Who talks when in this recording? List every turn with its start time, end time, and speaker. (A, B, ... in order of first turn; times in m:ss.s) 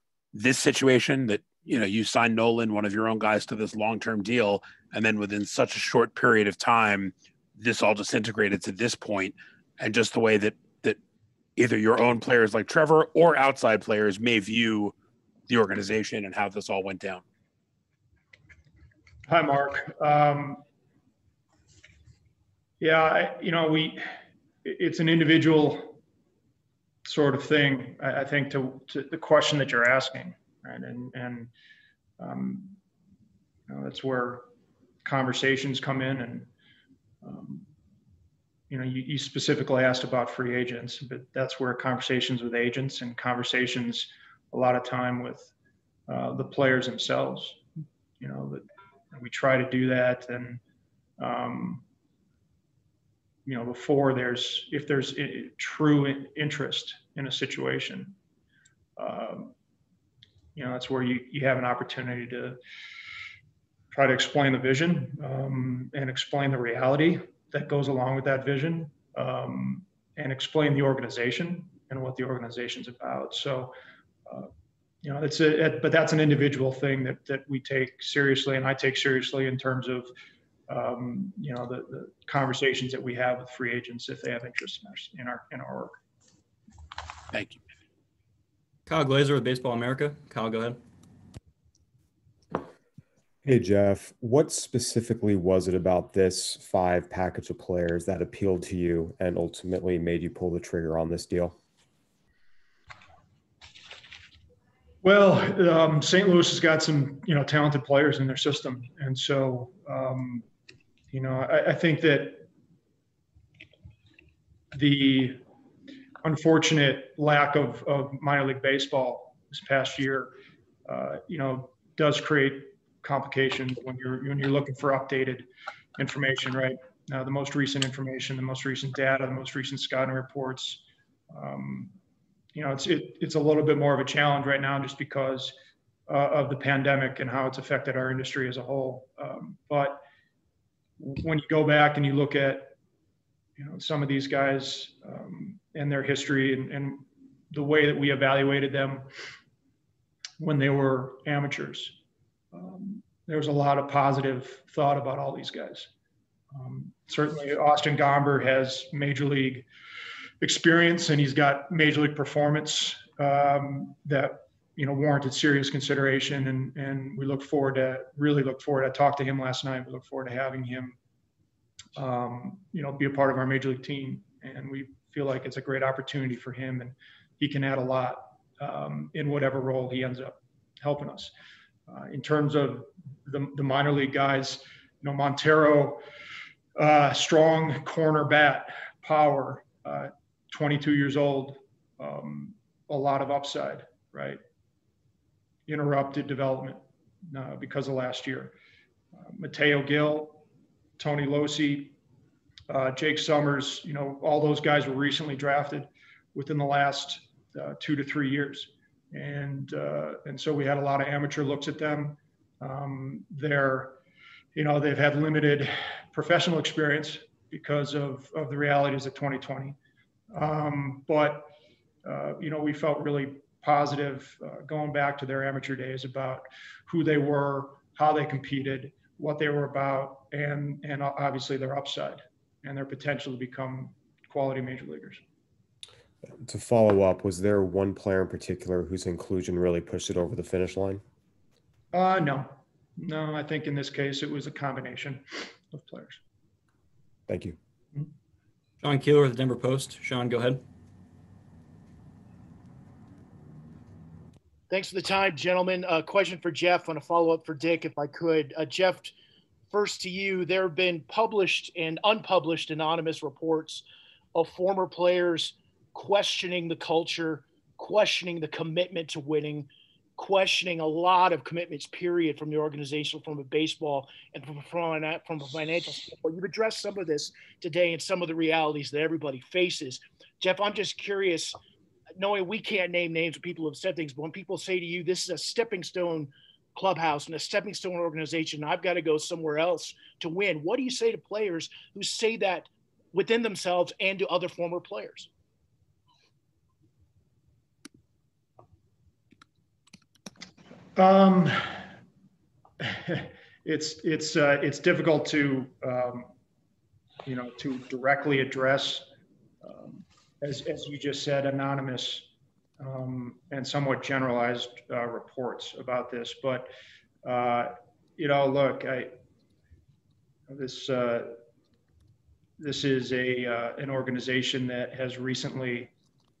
0:00.3-0:11.0 A
0:11.6-0:14.9 A
0:15.5-0:17.2 A
0:19.3-0:20.6 B
0:22.8-0:24.0 B
0:24.6-0:26.0 B
0:27.0-0:31.5 B
0:32.2-0:32.8 B
0:33.7-0:34.4 B
0:35.0-0:36.5 B
0:37.2-0:37.6 B
0:38.7-0:45.5 B
0:46.1-0:47.6 B
0:48.2-0:50.6 B
0:51.2-0:51.8 B
0:53.4-0:58.1 B
0:59.0-0:59.5 B
1:00.5-1:02.6 B
1:03.9-1:13.7 B
1:15.0-1:20.1 B
1:20.7-1:25.9 B
1:27.3-1:27.6 A
1:28.9-1:30.8 C
1:33.4-1:41.6 D
1:45.0-1:50.4 B
1:51.1-1:52.4 B
1:54.7-1:55.4 B
1:56.2-2:00.3 B
2:00.8-2:05.4 B
2:06.0-2:11.9 B
2:12.5-2:15.5 B
2:16.1-2:20.0 B
2:21.0-2:22.7 B
2:23.6-2:29.0 B
2:30.4-2:32.0 B
2:32.5-2:35.9 B
2:36.5-2:39.6 B
2:40.4-2:51.0 B
2:52.0-3:01.3 B
3:01.9-3:06.0 B
3:06.8-3:14.4 B
3:15.7-3:18.5 B
3:19.2-3:20.4 B
3:21.0-3:21.9 B
3:22.7-3:33.9 B
3:34.5-3:39.8 B
3:40.3-3:41.5 B
3:42.0-3:55.2 B
3:56.2-4:01.0 D
4:01.9-4:06.2 B
4:07.3-4:07.6 D
4:08.8-4:10.6 C
4:14.7-4:19.1 E
4:19.7-4:23.8 E
4:24.3-4:41.6 E
4:42.2-4:55.3 E
5:00.9-5:01.8 B
5:02.8-5:06.3 B
5:07.2-5:09.0 B
5:09.6-5:12.3 B
5:12.8-5:16.7 B
5:17.2-5:19.1 B
5:20.5-5:21.4 B
5:22.6-5:25.9 B